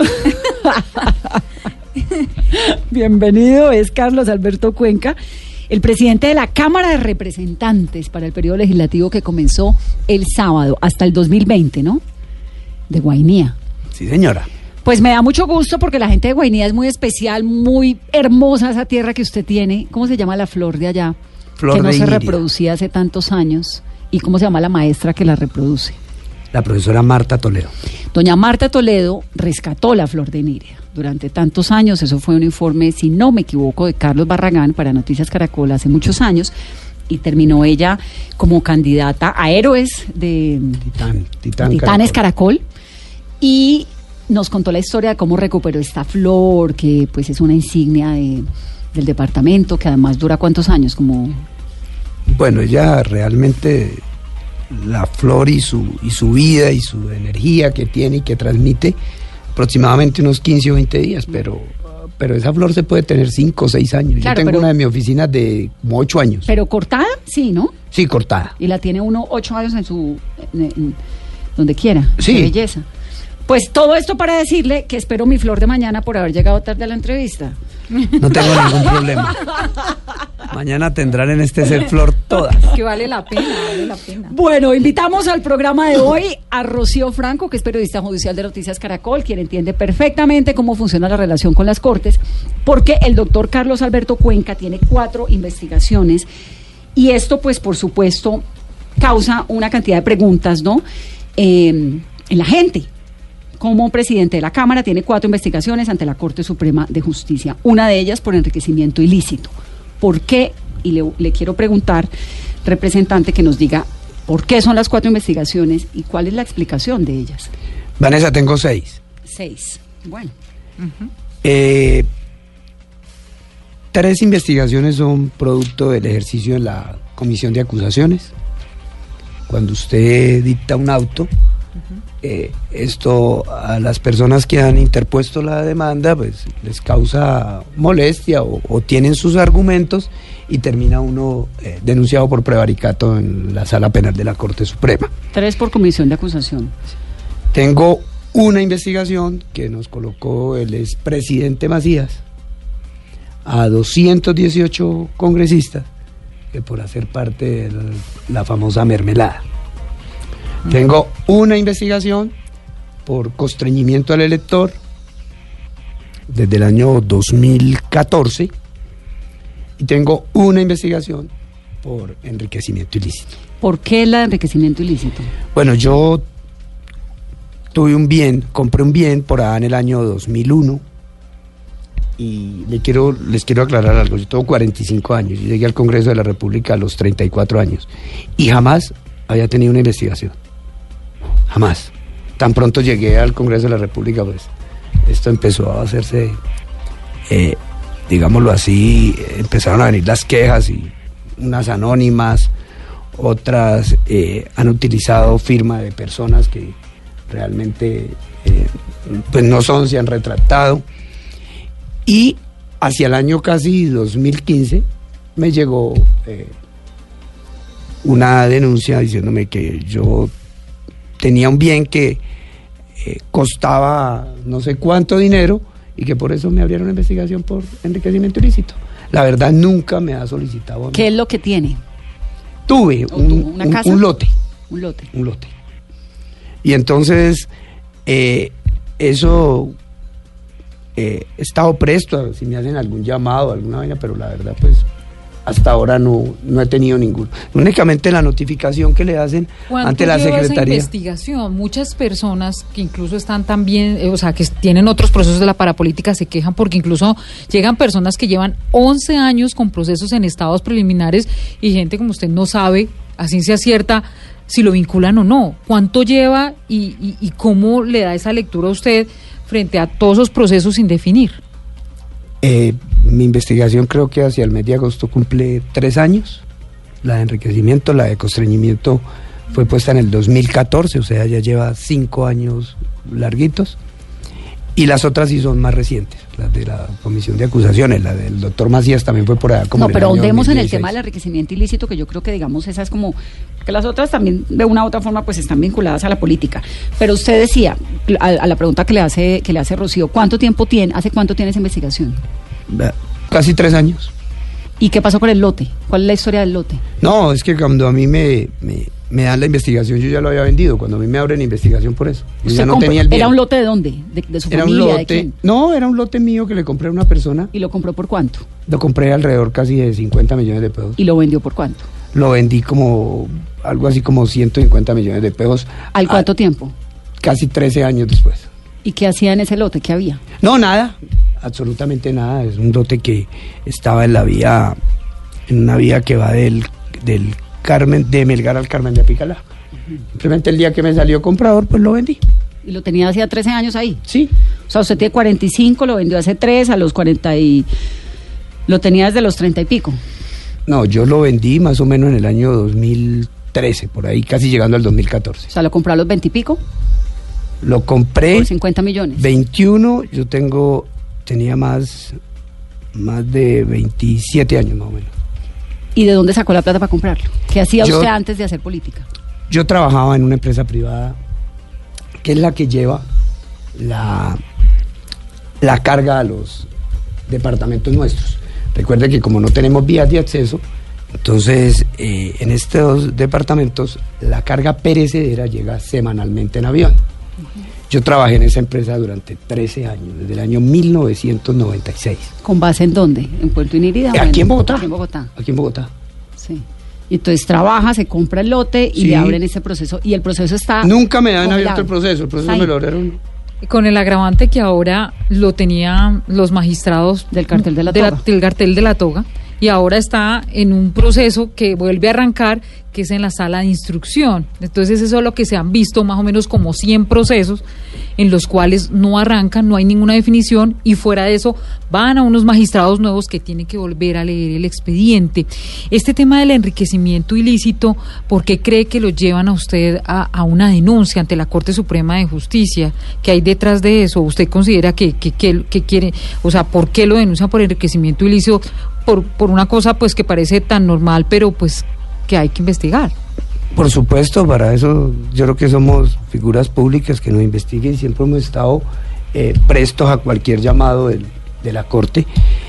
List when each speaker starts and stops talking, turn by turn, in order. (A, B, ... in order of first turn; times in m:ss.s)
0:00.1-0:01.4 A
0:02.5-0:05.2 A
0:05.7-0:12.0 A
0:12.9-0:13.6 A
0:13.9-0:14.5 B
0:14.8-0:21.2 A
0:21.6-0:22.4 B
0:21.7-0:26.0 A
0:26.5-0:27.7 B
0:28.1-0:36.5 A
0:37.1-0:40.9 A
0:40.9-0:42.2 B
0:41.6-0:42.6 A
0:43.4-0:51.4 A
0:52.3-0:54.0 B
0:54.7-0:59.0 B
0:59.5-1:06.5 B
1:04.2-1:04.7 A
1:06.4-1:07.7 A
1:07.9-1:08.5 B
1:08.6-1:11.0 A
1:11.6-1:12.8 A
1:12.2-1:12.5 B
1:13.5-1:17.6 A
1:18.2-1:19.4 B
1:20.5-1:22.7 B
1:22.6-1:24.3 C
1:24.3-1:36.3 A
1:36.9-1:38.4 A
1:39.0-1:40.8 A
1:41.4-1:42.9 A
1:43.6-1:52.1 A
1:52.6-1:57.5 A
1:58.0-1:59.0 B
1:59.2-2:00.3 A
2:00.8-2:01.1 C
2:01.4-2:02.1 B
2:03.9-2:08.3 B
2:09.5-2:11.3 B
2:12.2-2:25.1 B
2:25.3-2:26.7 A
2:27.5-2:32.2 B
2:33.4-2:35.9 B
2:36.5-2:39.4 B
2:40.6-2:42.3 B
2:43.0-2:44.8 B
2:46.3-2:48.5 B
2:49.8-2:51.3 B
2:51.8-2:53.3 B
2:53.6-2:55.3 A
2:55.5-2:56.2 B
2:57.7-3:00.8 B
3:02.2-3:10.4 B
3:11.5-3:14.5 B
3:15.0-3:16.4 B
3:17.3-3:22.5 B
3:23.1-3:26.8 B
3:27.3-3:30.8 B
3:32.0-3:34.8 B
3:35.4-3:36.5 B
3:38.0-3:40.3 B
3:41.2-3:42.2 B
3:43.0-3:51.0 B
3:50.9-3:51.8 A
3:52.7-3:54.3 B
3:53.1-3:54.0 A
3:54.7-3:55.1 A
3:55.1-3:55.5 B
3:56.6-3:57.5 B
3:58.0-3:59.7 B
4:01.0-4:04.8 B
4:05.4-4:10.9 B
4:09.7-4:31.4 C
4:32.4-4:36.4 B
4:37.0-4:43.8 B
4:44.8-4:50.9 B
4:49.8-5:02.2 A
5:02.7-5:04.1 B
5:04.8-5:06.8 A
5:07.0-5:13.3 B
5:12.4-5:15.3 A
5:14.5-5:17.5 B
5:17.5-5:18.4 A
5:18.7-5:21.0 B
5:21.0-5:21.8 A
5:22.1-5:26.3 B
5:25.9-5:26.7 A
5:27.2-5:28.5 B
5:28.8-5:30.2 A
5:30.4-5:34.8 B
5:35.5-5:39.4 B
5:40.1-5:42.2 B
5:42.6-5:44.0 A
5:44.1-5:44.3 B
5:44.7-5:47.7 A
5:48.7-5:50.0 A
5:50.7-5:55.5 B
5:55.5-5:56.6 A
5:57.6-5:58.5 B
5:58.3-5:59.3 A
5:59.2-6:02.2 B
6:02.9-6:05.1 B
6:06.0-6:09.0 A
6:07.8-6:08.1 B
6:09.5-6:11.2 B
6:12.2-6:13.0 B
6:13.7-6:14.4 B
6:15.6-6:16.7 B
6:17.3-6:20.6 B
6:21.2-6:27.0 B
6:27.9-6:32.3 B
6:32.4-6:35.3 A
6:34.1-6:35.9 B
6:36.4-6:41.9 A
6:39.0-6:39.4 B
6:40.8-6:43.2 B
6:42.4-6:42.7 A
6:43.6-6:57.6 C
6:47.3-6:48.2 A
6:58.2-7:23.1 C
7:23.7-7:32.3 B